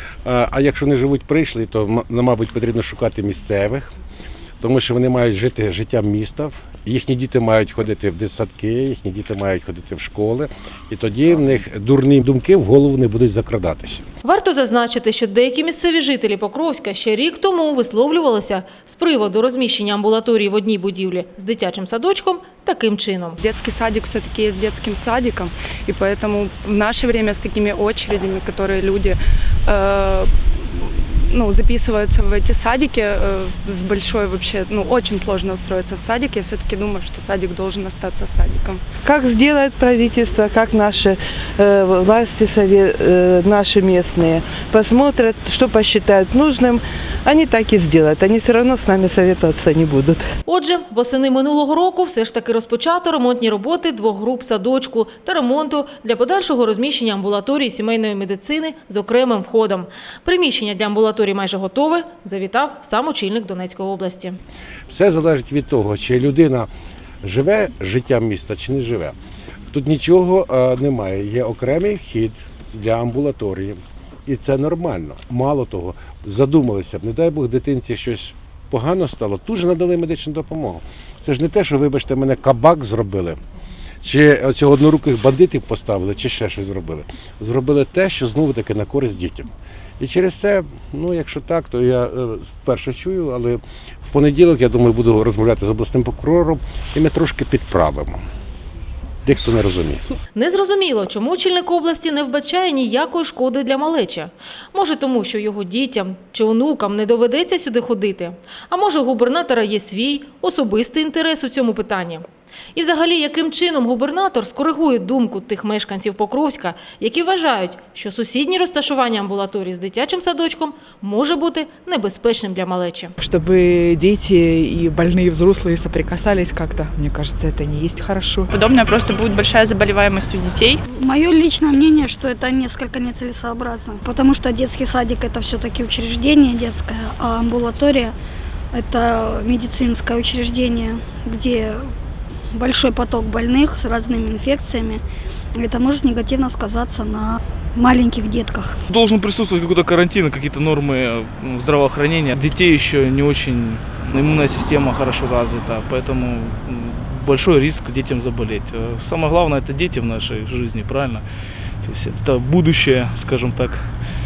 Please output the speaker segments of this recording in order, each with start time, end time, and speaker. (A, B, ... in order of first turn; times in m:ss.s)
0:00.2-0:03.9 A
0:04.6-0:14.0 A
0:14.2-0:23.4 B
0:23.4-0:38.8 C
0:39.0-0:50.2 D
0:50.4-1:04.4 B
1:04.9-1:06.7 A
1:07.2-1:09.2 A
1:09.7-1:23.4 A
1:24.0-1:38.2 A
1:39.2-1:40.0 A
1:40.3-1:52.2 B
1:52.7-2:03.1 B
2:03.2-2:08.5 E
2:08.5-2:10.8 F
2:10.9-2:18.1 G
2:18.7-2:21.9 G
2:22.5-2:25.0 G
2:25.5-2:28.8 G
2:28.9-2:43.9 H